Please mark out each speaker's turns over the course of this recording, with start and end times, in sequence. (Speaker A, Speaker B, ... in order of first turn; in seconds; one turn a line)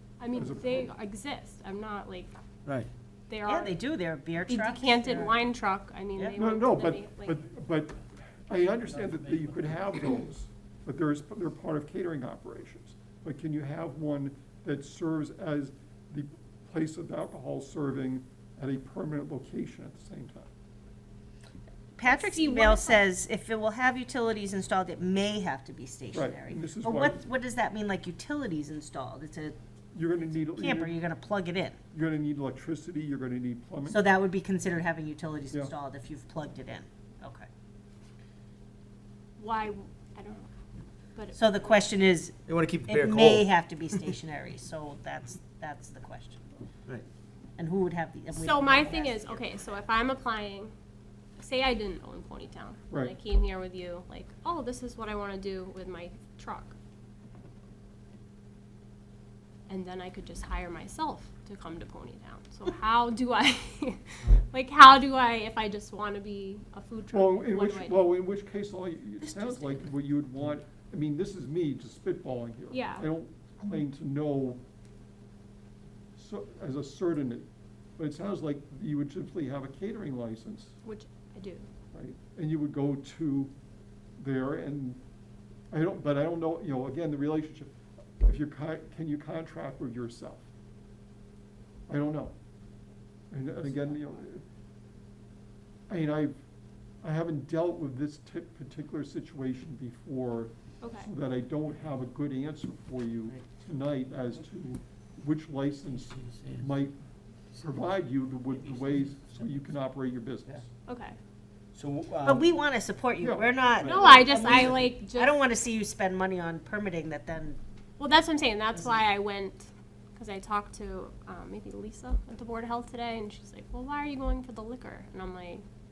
Speaker A: 0.2-2.3
Speaker B: 0.3-0.9
Speaker A: 3.3-3.8
Speaker C: 3.5-5.4
Speaker A: 4.5-7.4
Speaker B: 6.4-20.5
Speaker C: 21.9-29.6
Speaker A: 22.0-23.0
Speaker B: 26.1-27.2
Speaker B: 29.9-31.0
Speaker C: 30.6-31.8
Speaker B: 31.9-34.0
Speaker C: 33.9-37.5
Speaker A: 39.4-40.5
Speaker A: 41.1-41.8
Speaker C: 41.4-46.4
Speaker D: 42.5-44.0
Speaker C: 47.6-49.8
Speaker A: 48.3-50.7
Speaker A: 51.4-56.8
Speaker A: 59.7-68.1
Speaker B: 67.1-74.6
Speaker A: 72.7-73.1
Speaker B: 76.2-77.5
Speaker B: 78.0-80.8
Speaker A: 80.8-81.7
Speaker B: 81.9-83.5
Speaker B: 84.2-85.0
Speaker B: 85.7-90.4
Speaker B: 91.9-92.3
Speaker B: 93.3-94.4
Speaker B: 95.9-96.4
Speaker B: 97.0-107.0
Speaker A: 100.8-101.1
Speaker B: 107.5-110.7
Speaker A: 110.9-111.2
Speaker D: 111.7-112.5
Speaker C: 112.2-117.6
Speaker B: 113.2-114.8
Speaker A: 113.8-115.4
Speaker A: 118.0-125.6
Speaker C: 118.7-119.0